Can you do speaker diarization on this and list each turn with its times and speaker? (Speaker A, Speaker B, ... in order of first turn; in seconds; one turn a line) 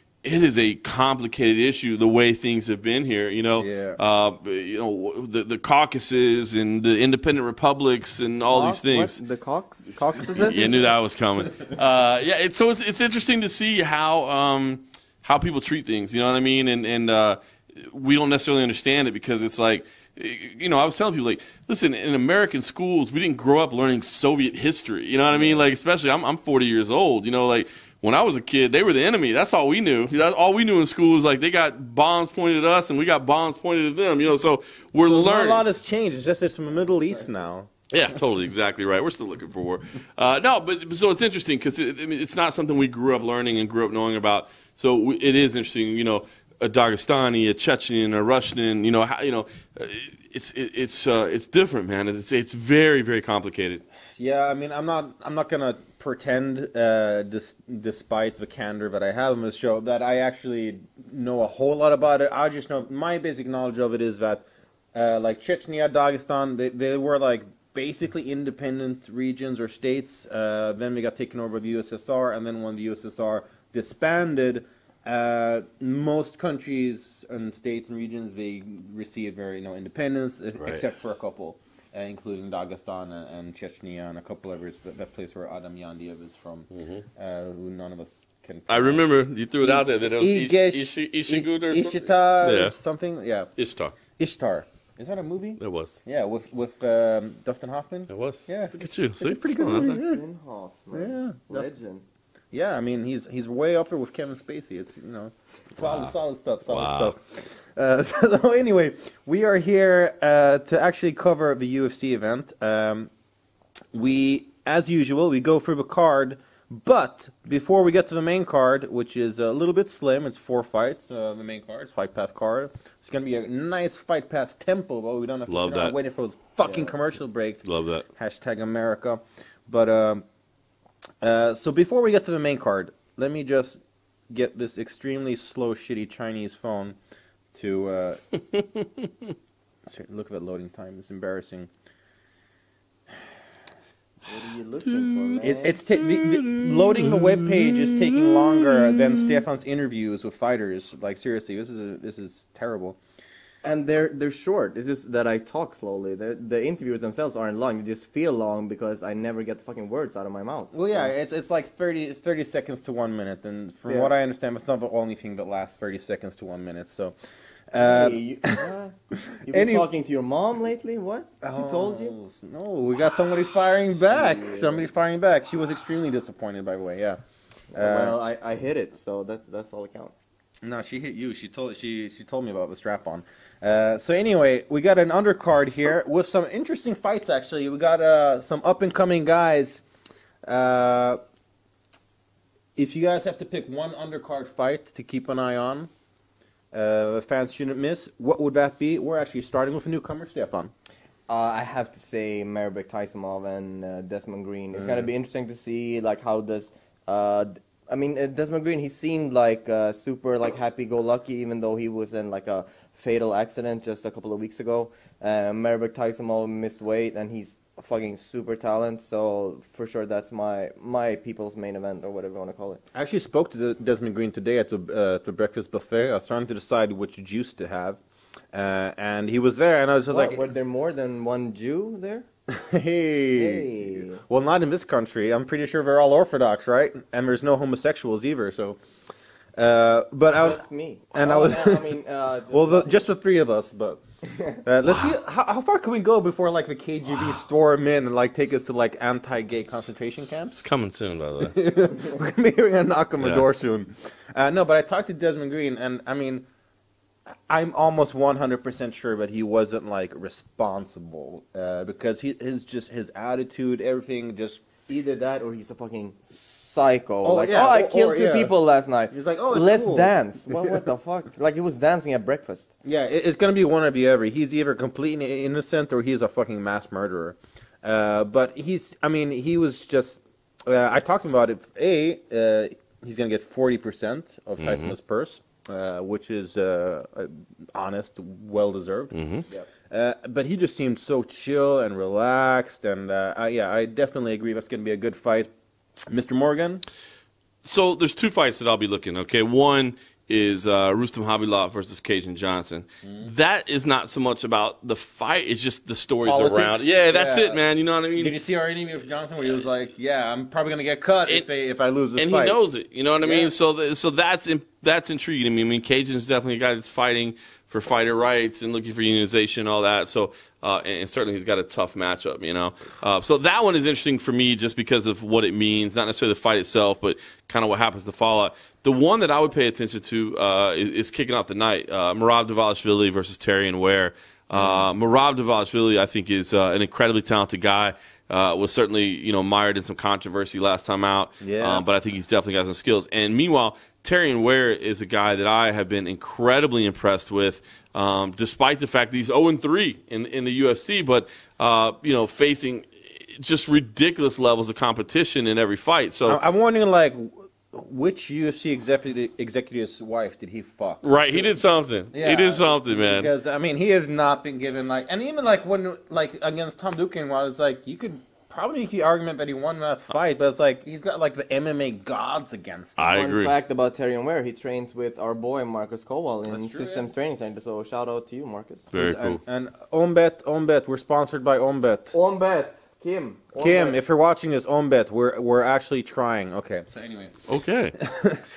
Speaker A: 0.2-9.2
Speaker B: 3.6-4.0
Speaker C: 8.5-10.9
Speaker A: 10.3-35.6
Speaker B: 25.3-25.7
Speaker B: 35.0-38.2
Speaker A: 37.9-53.8
Speaker B: 54.1-89.0
Speaker A: 86.7-87.0
Speaker A: 88.7-92.7
Speaker B: 89.6-93.5
Speaker A: 93.6-93.9
Speaker B: 94.2-100.2
Speaker A: 95.6-96.0
Speaker A: 98.1-100.0
Speaker C: 99.7-102.0
Speaker B: 100.9-101.7
Speaker B: 102.5-113.1
Speaker A: 105.8-106.1
Speaker A: 106.7-107.1
Speaker B: 113.9-130.2
Speaker A: 125.5-125.9
Speaker C: 126.6-126.9
Speaker A: 127.6-128.1
Speaker B: 131.2-137.0
Speaker B: 137.5-138.2
Speaker A: 138.6-138.8
Speaker B: 139.8-141.7
Speaker C: 144.3-145.8
Speaker A: 144.9-145.4
Speaker B: 145.4-153.0
Speaker A: 145.9-149.4
Speaker C: 153.6-161.1
Speaker B: 160.7-167.1
Speaker C: 163.9-164.1
Speaker B: 167.7-169.9
Speaker C: 167.8-172.2
Speaker B: 171.4-177.2
Speaker C: 174.1-174.8
Speaker C: 177.7-180.1
Speaker B: 177.7-178.2
Speaker B: 180.6-189.8
Speaker B: 190.4-191.2
Speaker B: 192.8-195.9
Speaker B: 196.7-200.7
Speaker C: 201.3-222.8
Speaker B: 204.8-205.1
Speaker B: 222.9-228.0
Speaker B: 228.5-230.4
Speaker C: 230.1-232.2
Speaker B: 232.5-238.8
Speaker C: 233.3-234.2
Speaker B: 239.6-240.6
Speaker C: 240.3-243.0
Speaker B: 241.1-241.9
Speaker B: 242.5-244.0
Speaker C: 244.2-244.6
Speaker B: 244.6-250.6
Speaker A: 244.8-245.2
Speaker A: 250.3-251.6
Speaker B: 251.4-256.4
Speaker A: 253.2-253.4
Speaker B: 257.5-264.6
Speaker C: 264.9-272.7
Speaker B: 267.2-268.5
Speaker B: 269.1-270.8
Speaker B: 272.8-289.1
Speaker A: 284.6-284.9
Speaker A: 289.1-289.4
Speaker B: 289.9-295.5
Speaker B: 296.1-296.8
Speaker A: 297.6-308.3
Speaker B: 303.0-303.3
Speaker B: 306.2-307.6
Speaker B: 308.1-312.6
Speaker A: 312.2-356.4
Speaker B: 313.2-313.5
Speaker B: 334.5-334.9
Speaker B: 341.4-341.8
Speaker B: 356.3-373.1
Speaker A: 361.0-363.3
Speaker A: 373.0-373.5
Speaker C: 373.1-378.9
Speaker B: 376.5-377.1
Speaker A: 378.9-379.4
Speaker B: 378.9-382.1
Speaker C: 382.1-384.0
Speaker B: 383.6-387.4
Speaker A: 387.5-388.0
Speaker B: 388.0-388.4